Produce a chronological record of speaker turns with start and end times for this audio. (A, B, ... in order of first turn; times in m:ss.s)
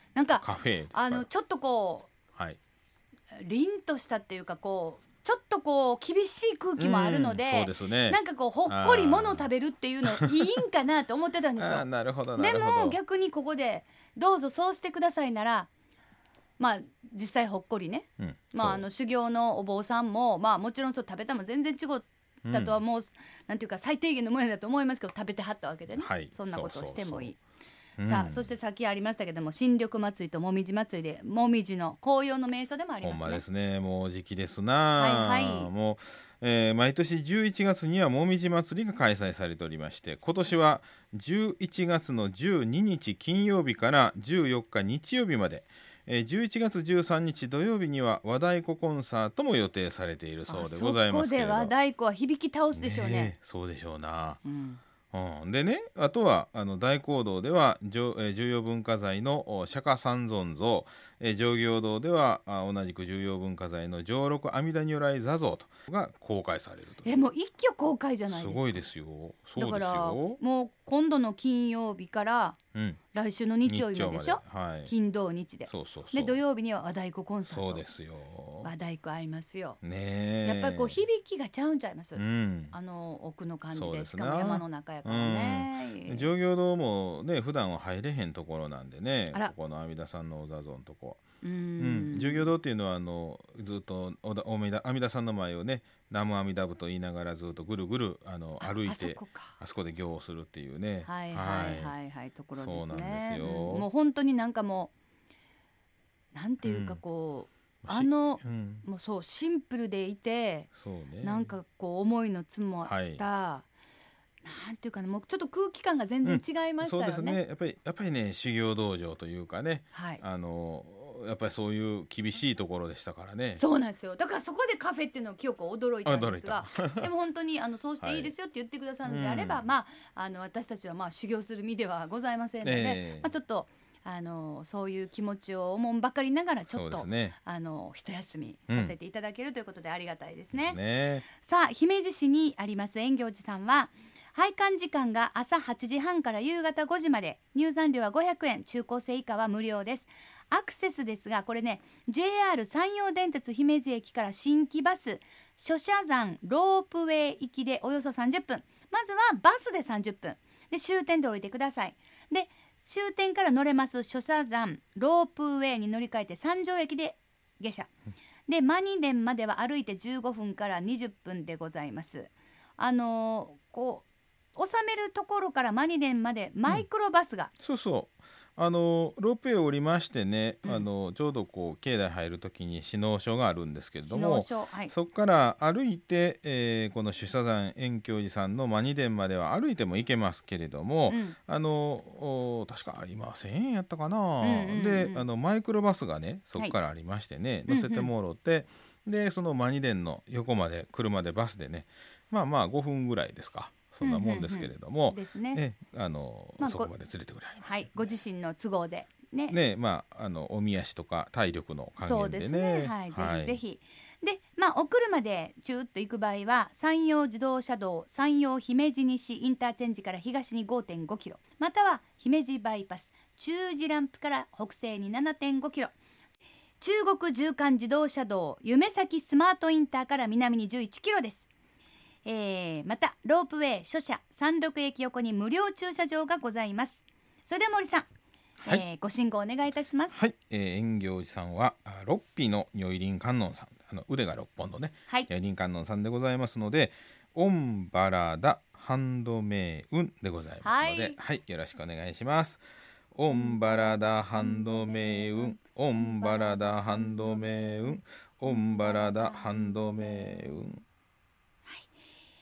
0:00.1-0:02.1 A
0:00.3-0:01.3 B
0:03.3-0:15.7 A
0:06.8-0:09.5 B
0:11.6-0:13.0 B
0:16.6-0:27.4 A
0:18.2-0:18.8 B
0:22.4-0:22.7 B
0:25.9-0:27.3 B
0:28.0-0:28.5 B
0:28.0-0:33.4 A
0:33.0-0:51.7 B
0:35.0-0:35.7 A
0:50.5-0:53.3 A
0:52.7-0:54.4 B
0:54.4-0:54.8 A
0:55.1-1:07.2 B
1:07.0-1:08.8 A
1:08.3-1:10.4 B
1:09.6-1:12.6 A
1:12.7-1:13.0 B
1:13.1-1:17.8 A
1:13.6-1:14.9 B
1:15.7-1:16.4 B
1:17.5-1:18.7 B
1:18.6-1:19.8 A
1:19.8-1:20.9 B
1:20.4-1:26.3 A
1:22.2-1:22.7 B
1:23.7-1:31.2 B
1:31.4-1:32.5 A
1:31.8-1:42.0 B
1:38.6-1:39.5 A
1:41.0-1:44.9 A
1:42.5-1:43.9 B
1:46.3-1:50.7 A
1:46.6-1:47.0 B
1:47.8-1:48.8 B
1:50.7-1:51.5 B
1:51.2-1:53.6 A
1:52.8-1:53.2 B
1:54.4-1:57.4 A
1:56.2-2:03.6 B
1:59.9-2:00.2 A
2:03.6-2:47.9 A
2:06.0-2:07.1 B
2:08.0-2:08.3 B
2:09.0-2:09.6 B
2:12.6-2:13.3 B
2:16.7-2:17.4 B
2:18.7-2:18.9 B
2:20.5-2:21.2 B
2:48.5-2:57.5 A
2:57.6-3:28.0 B
3:04.0-3:04.9 A
3:11.1-3:11.4 A
3:14.4-3:15.2 A
3:17.7-3:18.1 A
3:24.0-3:25.6 A
3:26.6-3:26.9 A
3:27.6-3:29.6 A
3:29.5-3:33.6 B
3:32.0-3:45.9 A
3:46.8-3:51.5 A
3:52.2-3:58.1 A
3:58.6-4:00.1 A
4:00.1-4:12.6 B
4:10.6-4:11.2 A
4:13.1-4:20.8 B
4:13.3-4:20.5 A